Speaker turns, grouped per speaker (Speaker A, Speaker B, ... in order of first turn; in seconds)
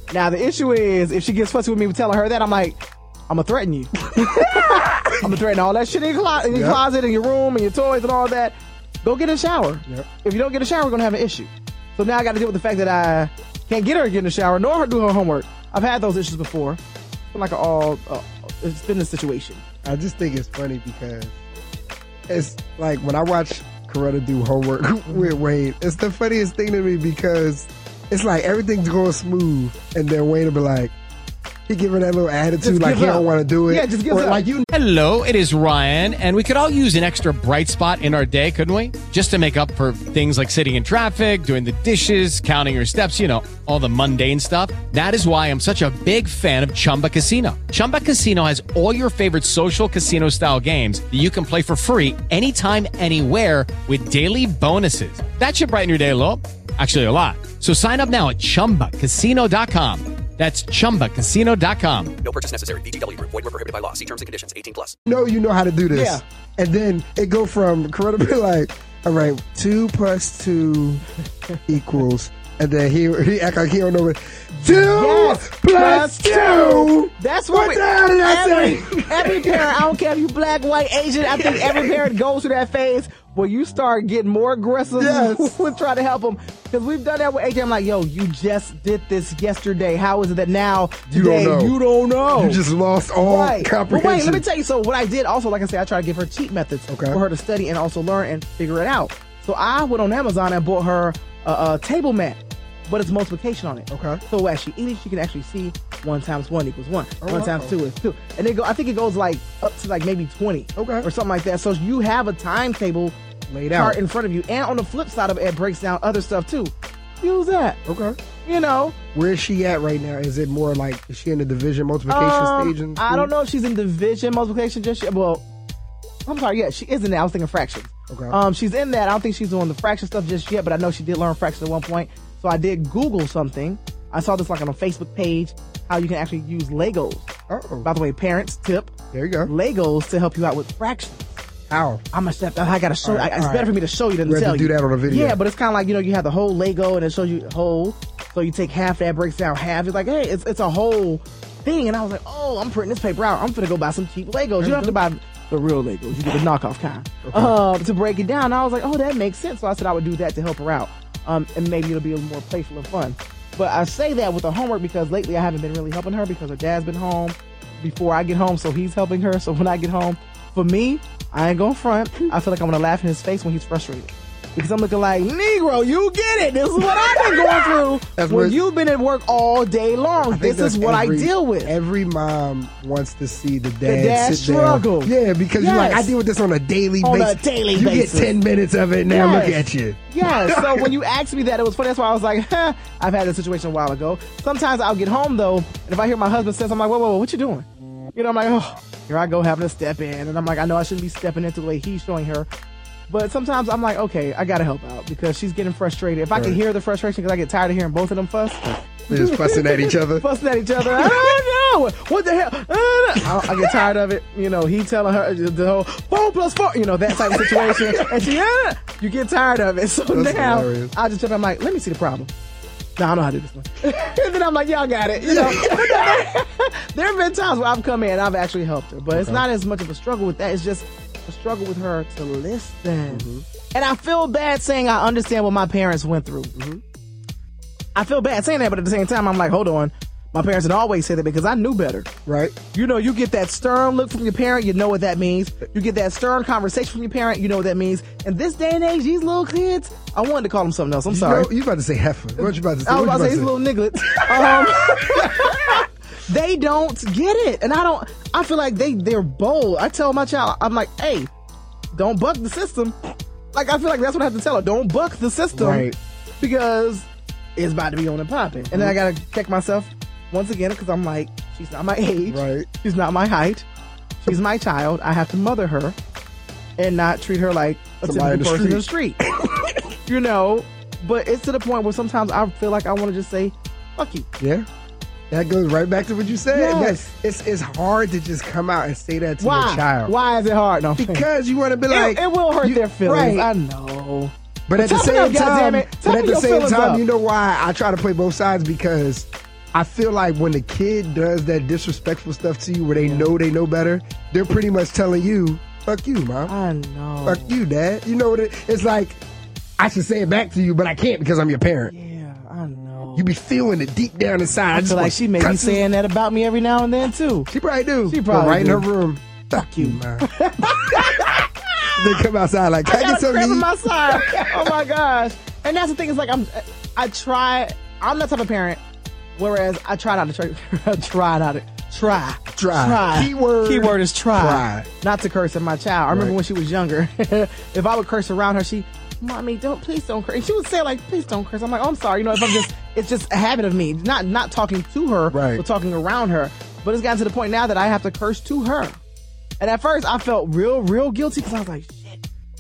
Speaker A: 0.1-19.6, 25.1-25.4, 32.6-34.4, 65.9-66.2, 74.5-92.6, 93.2-113.2, 113.7-117.8, 118.5-119.0, 122.1-125.5, 126.2-137.3, 137.8-138.9, 139.4-141.2, 142.1-181.7, 183.8-186.2, 187.0-188.4, 189.1-202.5, 203.1-222.3, 223.0-236.5, 237.9-242.1, 242.7-251.5, 252.4-261.3, 261.9-263.0, 263.5-273.7, 274.2-276.0, 276.8-279.2, 280.1-284.3, 286.5-287.1, 289.4-291.3, 291.9-297.0, 303.0-303.3, 306.5-307.6, 311.9-313.3, 314.7-317.5, 318.1-318.9, 319.6-321.9, 322.8-328.8, 329.4-349.0, 349.6-352.2
Speaker B: 4.2-4.9, 6.5-6.8, 19.8-21.4, 22.3-31.0, 31.7-34.6, 65.1-71.0, 71.7-80.0, 81.3-82.0, 84.9-85.6, 91.1-91.8, 92.3-94.4, 96.9-97.2, 103.9-104.2, 107.2-107.8, 110.8-111.1, 113.5-114.0, 117.9-118.2, 119.1-123.3, 128.1-128.4, 137.5-137.9, 139.1-139.5, 141.7-142.0, 143.0-145.4, 154.6-155.0, 157.2-157.6, 176.8-178.6, 180.3-190.9, 206.3-206.6, 208.6-210.3, 210.9-211.2, 220.1-220.9, 225.2-226.2, 229.1-229.4, 233.1-233.4, 236.6-236.8, 242.3-242.6, 251.1-255.8, 265.5-266.0, 268.6-269.0, 272.3-272.7, 278.0-278.9, 279.4-279.9, 284.4-284.7, 285.3-290.1, 291.0-293.5, 294.7-306.5, 307.2-309.2, 309.8-311.9, 313.1-315.8, 317.5-320.3, 320.9-321.3, 322.0-324.8, 332.5-334.9, 345.3-345.6
Speaker C: 34.7-62.1
Speaker D: 62.2-65.0